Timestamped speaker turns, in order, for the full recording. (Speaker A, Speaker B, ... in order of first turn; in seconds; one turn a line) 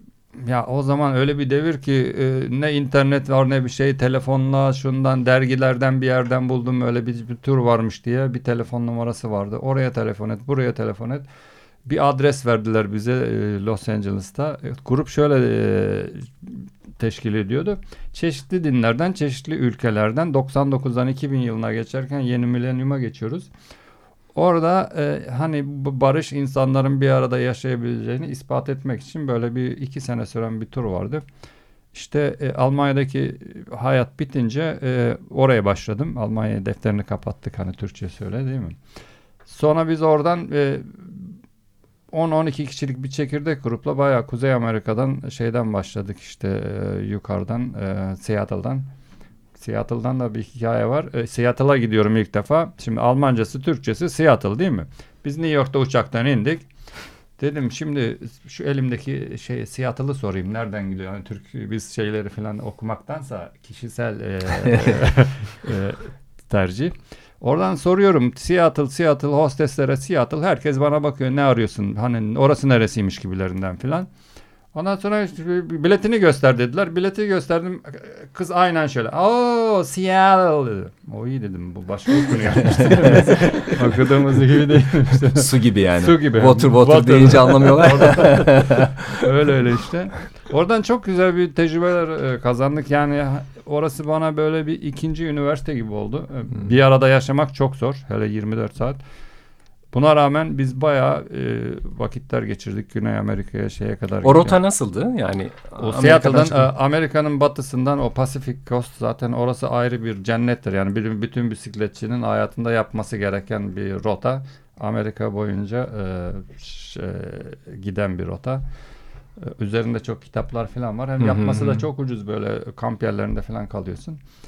Speaker A: 0.4-11.2
Speaker A: 11.8-23.5
Speaker A: 24.4-31.2
Speaker A: 31.9-38.8
Speaker A: 39.5-41.3
Speaker A: 42.1-48.9
Speaker A: 49.6-56.7
Speaker A: 57.4-74.1
Speaker A: 74.7-99.0
Speaker B: 82.8-84.0
Speaker B: 85.3-89.2
Speaker A: 99.9-104.6
Speaker B: 104.2-106.7
Speaker A: 105.8-118.7
Speaker A: 119.4-124.2
Speaker B: 121.2-121.9